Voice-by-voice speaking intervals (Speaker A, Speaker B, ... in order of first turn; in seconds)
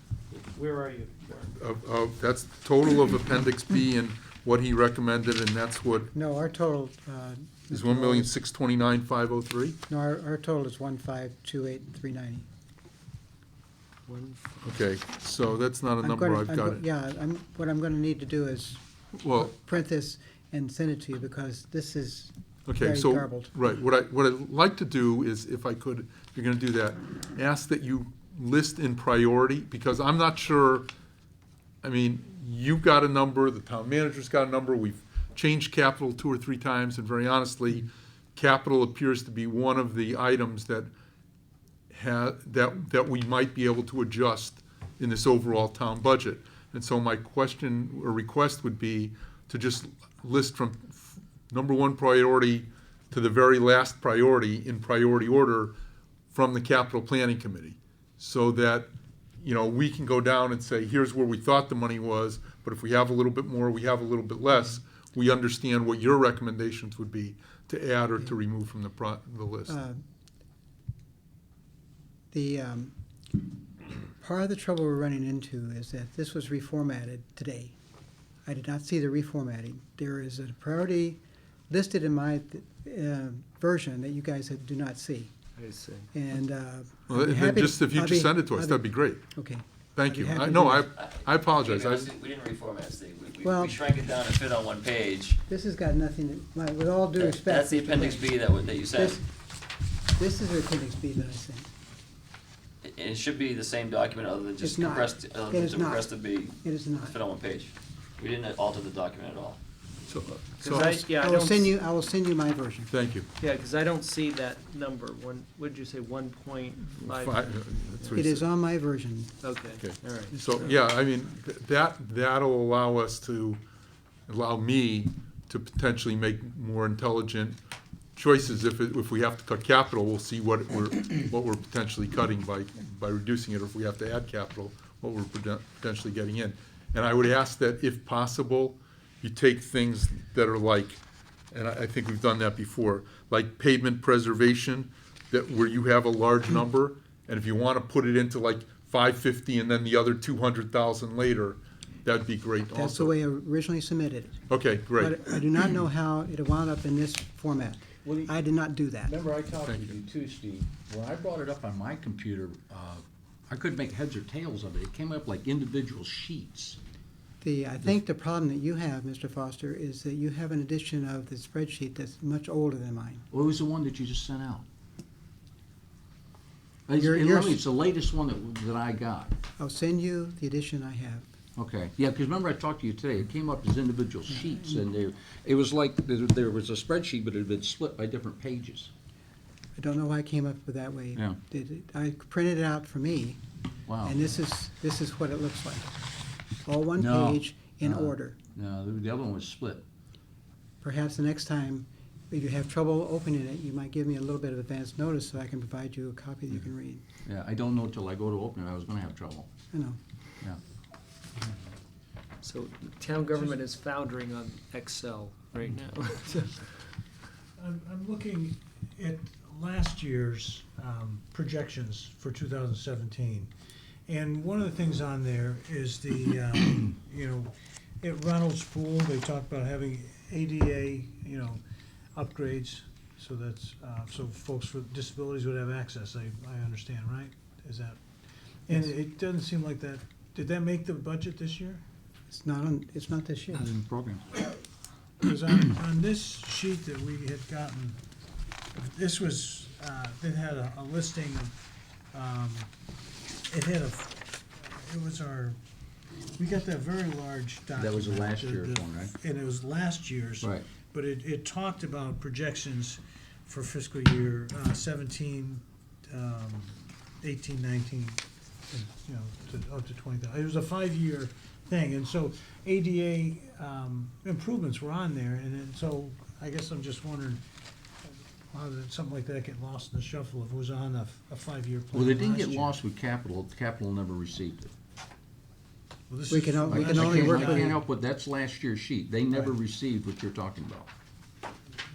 Speaker A: 0.3-1.5, 14.1-14.7, 85.6-86.1, 110.6-111.8, 113.4-118.2, 119.4-120.8, 212.4-216.7
Speaker B: 1.5-6.1, 7.7-9.8, 14.6-16.8, 19.2-19.5, 22.6-30.9, 31.8-40.9, 41.9-55.7, 56.3-69.8, 87.1-89.2, 90.0-92.1, 110.1-110.9, 112.9-113.3, 117.0-118.4, 119.8-123.6, 124.3-127.6, 128.1-141.0, 141.5-153.2, 154.5-155.2, 159.6-160.0
Speaker C: 6.1-8.3, 9.9-12.4, 16.0-23.5, 69.7-70.0, 72.3-72.9, 74.2-77.7, 78.5-85.3, 86.1-90.9, 93.4-93.8, 95.5-98.4, 98.9-99.2, 100.2-101.7, 104.6-107.2, 110.7-112.9, 118.2-119.3, 152.7-154.4, 155.0-159.1, 167.4-173.2, 177.0-177.6, 179.6-181.2, 189.8-193.4, 194.0-195.9, 196.6-198.4, 200.8-207.0, 209.7-210.0, 242.3-243.7, 286.3-287.8
Speaker D: 91.0-95.4, 97.2-99.2, 102.8-109.6
Speaker E: 158.0-158.3, 159.0-166.8, 173.3-174.6, 176.9-179.3, 181.6-188.9, 193.9-194.2, 197.0-199.8, 207.2-209.5, 243.5-244.2, 257.8-259.1, 260.4-260.6, 281.9-284.7, 286.7-290.9
Speaker F: 213.1-213.6, 217.6-223.5, 224.1-231.6, 232.1-238.0, 238.7-241.8, 245.2-248.0, 248.7-251.5, 252.1-252.7, 253.5-255.6, 256.4-277.4, 278.5-282.8, 286.1-287.8